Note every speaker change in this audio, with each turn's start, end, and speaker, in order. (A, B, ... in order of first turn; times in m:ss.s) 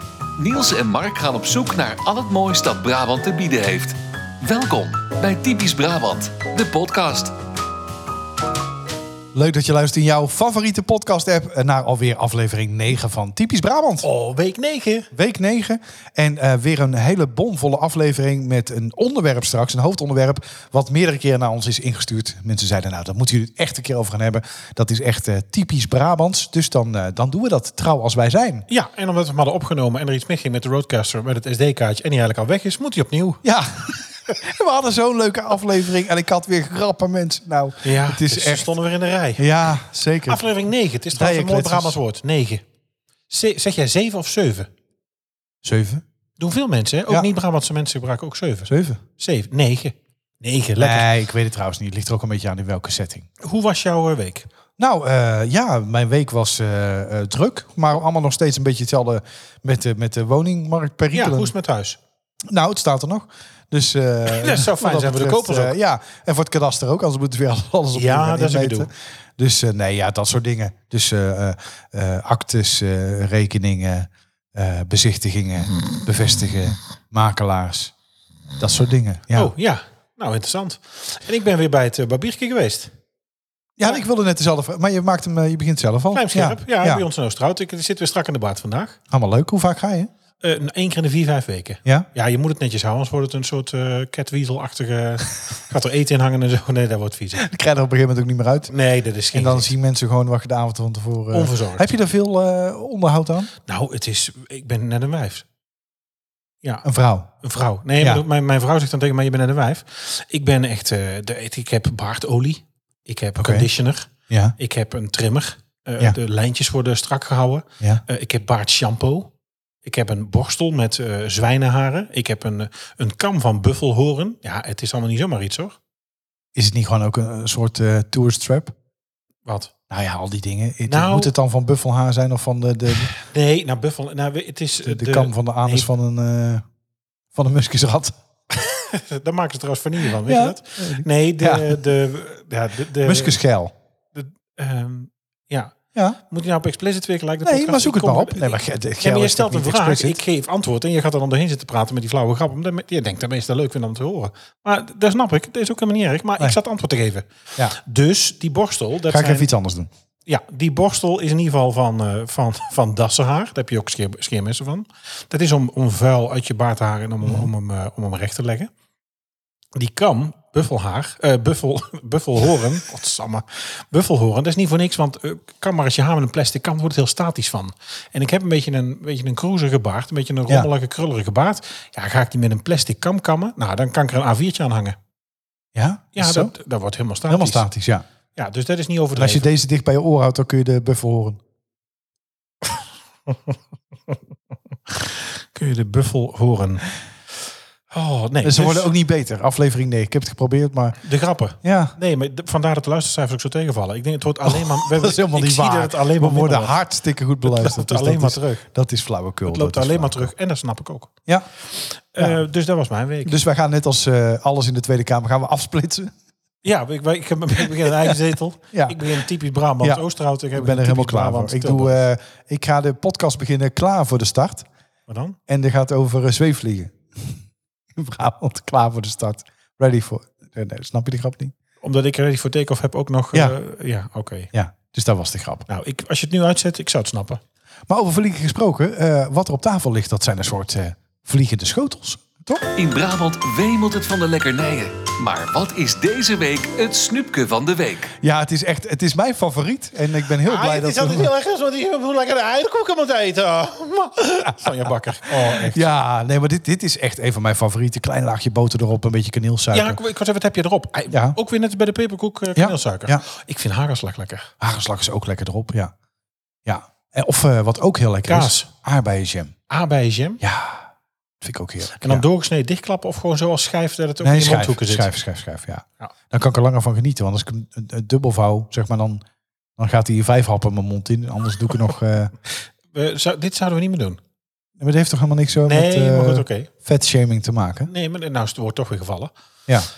0:00.4-0:07.3 A
0:09.3-0:14.1 B
0:14.0-0:15.1 C
0:15.1-0:28.7 B
0:28.7-0:33.4 C
0:33.4-0:38.7 B
0:37.8-0:39.5 C
0:39.4-0:40.4 B
0:40.3-0:42.6 C
0:41.1-0:42.0 B
0:43.3-0:44.7 C
0:45.6-0:46.0 B
0:46.4-0:51.1 C
0:48.7-0:49.0 B
0:50.8-0:53.3 B
0:53.4-0:54.5 C
0:54.8-1:01.5 B
1:01.1-1:02.0 C
1:02.5-1:17.9 B
1:04.2-1:05.8 C
1:07.9-1:08.9 C
1:18.6-1:19.5 B
1:19.3-1:22.9 C
1:23.8-1:27.0 B
1:26.1-1:29.0 C
1:29.1-1:30.1 B
1:30.4-1:37.4 C
1:37.4-1:38.7 B
1:38.7-1:39.7 C
1:39.3-1:43.5 B
1:41.3-1:41.9 C
1:43.7-1:45.4 C
1:46.8-1:47.3 B
1:47.4-1:59.3 C
1:53.4-1:53.7 B
1:54.3-1:54.6 B
1:59.8-2:05.8 C
2:06.5-2:08.7 B
2:09.4-2:09.7 C
2:09.9-2:13.1 B
2:10.9-2:11.3 C
2:13.0-2:15.9 C
2:14.8-2:16.6 B
2:17.3-2:18.2 B
2:18.5-2:23.4 C
2:20.2-2:21.8 B
2:23.0-2:23.7 B
2:24.1-2:25.8 C
2:26.2-2:39.5 C
2:27.4-2:30.2 B
2:39.1-2:39.9 B
2:40.2-2:48.7 C
2:49.8-3:05.0 C
3:05.8-3:06.5 B
3:06.1-3:07.7 C
3:07.3-3:08.0 B
3:08.4-3:09.5 C
3:09.2-3:11.4 B
3:14.9-3:16.9 C
3:17.9-3:18.9 C
3:18.4-3:21.0 B
3:21.0-3:26.8 C
3:21.6-3:22.0 B
3:24.4-3:30.3 B
3:27.4-3:28.7 C
3:29.4-3:31.1 C
3:31.6-3:33.4 C
3:33.2-3:36.1 B
3:36.6-3:42.0 C
3:37.8-3:38.2 B
3:38.7-3:39.1 B
3:39.8-3:44.7 B
3:45.1-3:45.4 C
3:45.5-3:47.4 B
3:47.9-3:51.5 B
3:51.8-3:54.5 C
3:54.5-3:55.7 B
3:55.7-3:57.4 C
3:57.9-4:02.7 B
4:02.8-4:08.1 A
4:08.2-4:11.3 B
4:10.4-4:15.9 C
4:15.5-4:20.0 B
4:19.7-4:24.5 C
4:21.1-4:21.4 B
4:22.6-4:23.2 B
4:24.6-4:25.9 B
4:26.6-4:29.6 B
4:28.3-4:28.7 C
4:29.7-4:30.4 C
4:30.4-4:30.9 B
4:31.4-4:32.2 B
4:32.0-4:35.1 C
4:34.2-4:39.2 B
4:39.8-4:42.3 B
4:42.5-4:44.2 C
4:44.8-4:47.9 B
4:45.6-4:46.7 C
4:47.9-4:49.3 C